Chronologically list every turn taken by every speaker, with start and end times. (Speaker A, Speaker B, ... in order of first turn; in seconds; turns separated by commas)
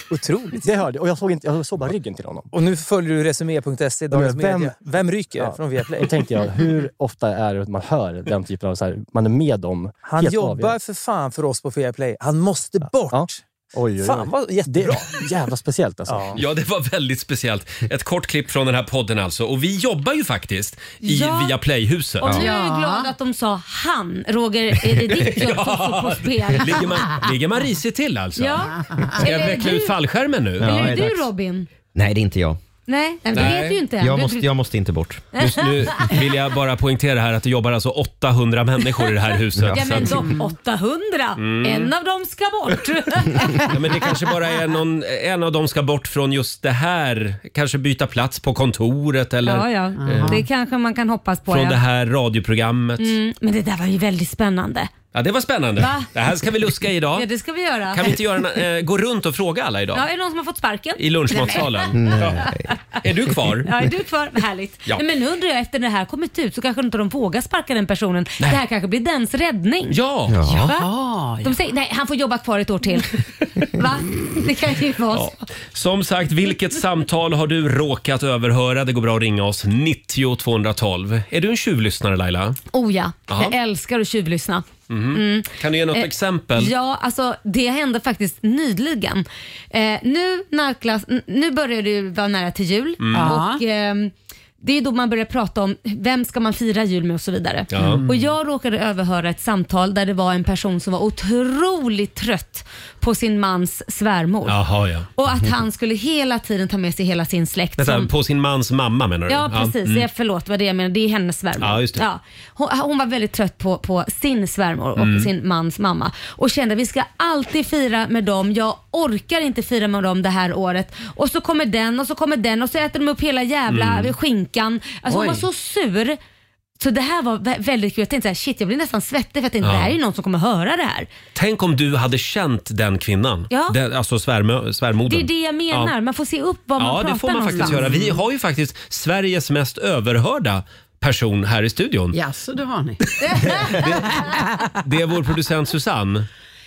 Speaker A: 0.1-0.6, Speaker B: 0.5-2.5, Speaker A: 2.5-6.2, Speaker B: 4.1-10.8, Speaker A: 10.0-13.4, Speaker B: 12.8-16.4, Speaker A: 14.0-15.2, Speaker A: 16.1-16.4, Speaker C: 16.3-22.4, Speaker D: 21.0-21.6, Speaker D: 22.2-26.9, Speaker E: 22.4-23.1, Speaker C: 24.9-31.0, Speaker D: 28.4-29.9, Speaker F: 30.6-31.3, Speaker D: 30.6-31.7, Speaker F: 31.9-32.6, Speaker D: 32.9-34.5, Speaker C: 33.3-33.8, Speaker F: 34.0-35.2, Speaker D: 35.4-36.1, Speaker C: 35.4-40.2, Speaker F: 39.6-39.9, Speaker D: 39.7-43.7, Speaker C: 41.4-41.9, Speaker C: 43.6-50.4, Speaker D: 49.4-51.8, Speaker E: 50.0-50.4, Speaker C: 51.5-53.1, Speaker D: 53.0-54.9, Speaker C: 55.1-57.3, Speaker D: 55.8-56.1, Speaker D: 57.1-58.1, Speaker C: 57.9-60.0, Speaker D: 59.9-61.9, Speaker C: 61.0-62.5, Speaker F: 61.9-62.6, Speaker D: 62.4-62.7, Speaker C: 63.0-63.7, Speaker D: 63.6-70.0, Speaker C: 69.9-70.4, Speaker F: 70.3-70.7, Speaker D: 70.5-70.9, Speaker E: 70.5-71.5, Speaker D: 71.4-75.3, Speaker C: 75.1-82.6, Speaker D: 82.7-104.6, Speaker C: 84.9-86.7, Speaker C: 93.0-93.4, Speaker E: 93.1-93.6, Speaker C: 97.7-98.0, Speaker C: 104.5-105.1, Speaker D: 105.1-108.1, Speaker C: 107.8-110.0, Speaker D: 109.3-126.2, Speaker C: 111.6-112.0, Speaker C: 115.0-115.3, Speaker C: 123.7-124.1, Speaker D: 126.8-131.1, Speaker C: 129.6-129.9, Speaker C: 131.3-135.9, Speaker D: 133.5-133.7, Speaker D: 135.1-137.9, Speaker C: 136.8-142.2, Speaker E: 137.6-138.2, Speaker E: 142.1-144.6, Speaker D: 143.2-143.6, Speaker C: 143.3-146.3